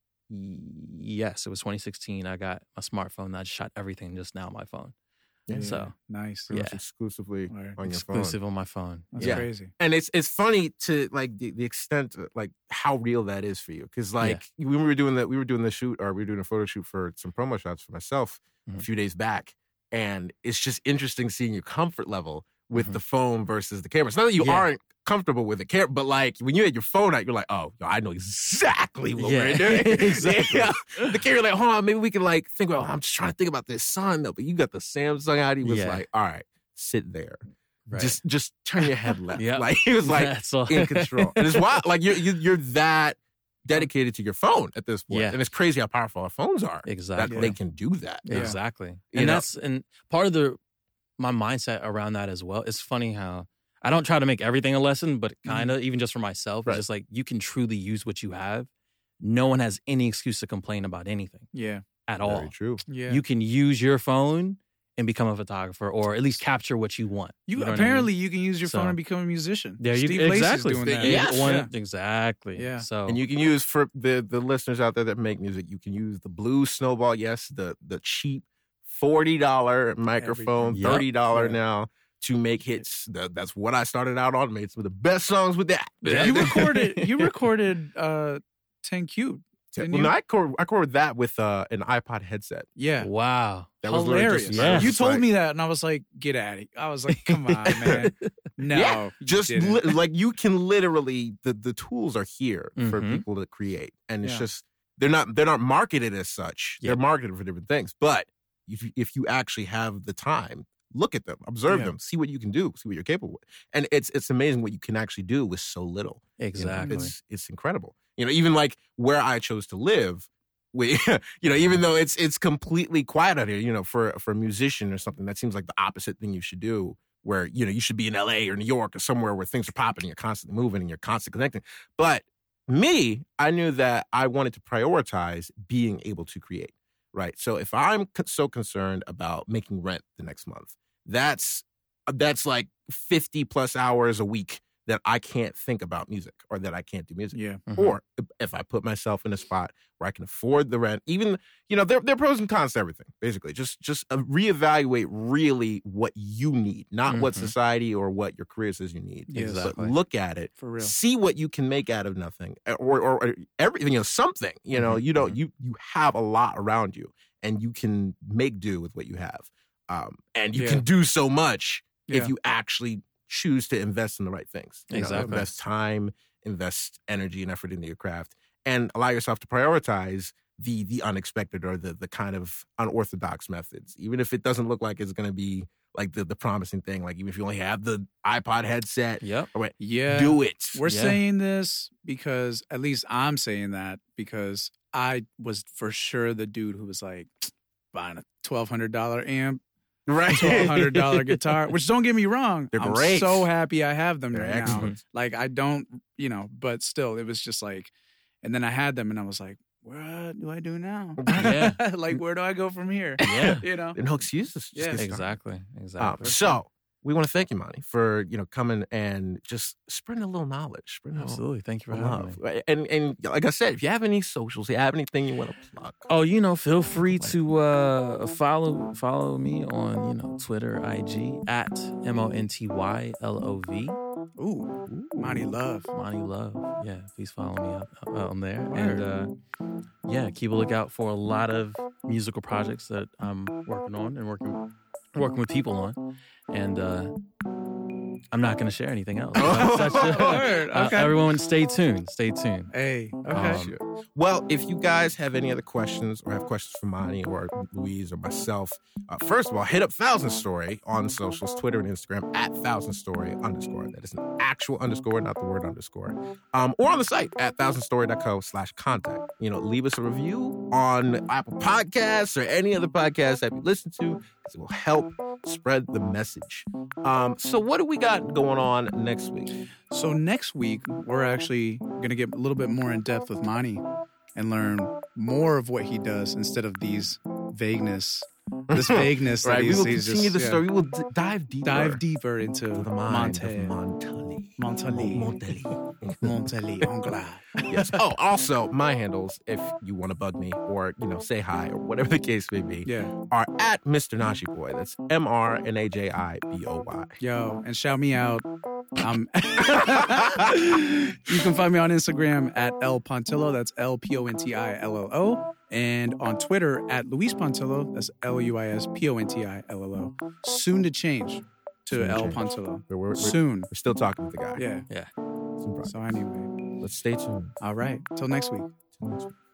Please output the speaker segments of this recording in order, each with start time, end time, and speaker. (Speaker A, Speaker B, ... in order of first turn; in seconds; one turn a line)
Speaker A: 0.3-4.9
Speaker B: 5.5-5.8
Speaker A: 5.5-5.9
Speaker C: 5.5-6.5
Speaker B: 6.5-8.4
Speaker A: 6.5-6.8
Speaker C: 7.5-7.8
Speaker A: 7.8-9.5
Speaker C: 9.1-9.7
Speaker B: 9.2-37.4
Speaker A: 22.7-23.0
Speaker A: 24.4-24.7
Speaker A: 29.2-31.2
Speaker A: 35.6-36.0
Speaker A: 37.9-38.2
Speaker B: 38.0-48.6
Speaker A: 39.4-41.8
Speaker A: 45.1-45.4
Speaker A: 46.9-47.6
Speaker C: 47.2-47.5
Speaker A: 48.2-50.6
Speaker C: 48.3-48.6
Speaker B: 49.1-49.5
Speaker A: 51.2-58.7
Speaker C: 55.5-55.8
Speaker A: 59.2-61.5
Speaker C: 61.5-61.9
Speaker A: 62.1-62.5
Speaker B: 62.2-62.8
Speaker C: 62.9-63.2
Speaker A: 63.1-68.1
Speaker C: 67.5-71.7
Speaker A: 68.6-69.0
Speaker A: 69.8-73.2
Speaker B: 70.9-71.6
Speaker C: 72.6-72.9
Speaker B: 73.1-87.3
Speaker C: 80.2-81.6
Speaker A: 80.7-81.1
Speaker A: 86.0-86.7
Speaker C: 86.0-90.1
Speaker B: 89.7-92.7
Speaker C: 92.8-93.1
Speaker A: 93.0-94.9
Speaker B: 93.8-95.3
Speaker C: 93.9-99.8
Speaker A: 97.1-98.1
Speaker B: 97.7-98.1
Speaker B: 98.7-190.8
Speaker A: 102.8-103.2
Speaker C: 111.7-111.9
Speaker A: 116.4-117.1
Speaker C: 116.8-117.1
Speaker C: 147.3-147.6
Speaker A: 147.7-148.0
Speaker A: 157.1-157.5
Speaker C: 159.3-159.7
Speaker A: 159.3-159.9
Speaker C: 160.6-160.9
Speaker A: 164.8-165.4
Speaker C: 170.5-170.8
Speaker A: 174.9-175.5
Speaker C: 174.9-175.4
Speaker A: 189.2-189.5
Speaker C: 189.8-199.6
Speaker A: 190.9-191.2
Speaker B: 200.1-201.1
Speaker C: 200.3-207.9
Speaker B: 202.7-203.5
Speaker B: 204.3-205.0
Speaker A: 204.7-205.0
Speaker C: 208.4-214.0
Speaker B: 211.2-211.6
Speaker A: 211.3-211.8
Speaker B: 213.2-215.3
Speaker A: 213.2-213.7
Speaker C: 214.7-215.0
Speaker A: 215.0-216.4
Speaker B: 216.0-226.1
Speaker C: 216.2-216.6
Speaker A: 221.2-222.4
Speaker A: 226.1-234.0
Speaker B: 227.0-227.4
Speaker C: 234.4-235.9
Speaker B: 234.9-235.5
Speaker A: 235.9-239.3
Speaker C: 238.7-239.1
Speaker A: 240.1-244.6
Speaker A: 245.2-246.0
Speaker A: 246.5-247.1
Speaker A: 248.3-252.7
Speaker B: 249.3-250.4
Speaker C: 249.4-251.4
Speaker C: 252.7-253.7
Speaker A: 253.3-253.8
Speaker B: 253.3-279.5
Speaker C: 279.9-283.8
Speaker C: 284.4-290.6
Speaker B: 288.7-292.0
Speaker C: 291.6-293.8
Speaker B: 292.7-296.4
Speaker C: 294.6-295.4
Speaker C: 296.2-298.0
Speaker B: 297.7-307.2
Speaker C: 302.9-303.1
Speaker C: 307.2-323.7
Speaker B: 309.8-310.6
Speaker B: 321.9-324.7
Speaker C: 324.6-324.9
Speaker B: 325.6-326.2
Speaker C: 325.9-326.5
Speaker B: 326.8-327.6
Speaker C: 327.6-328.7
Speaker B: 329.0-329.3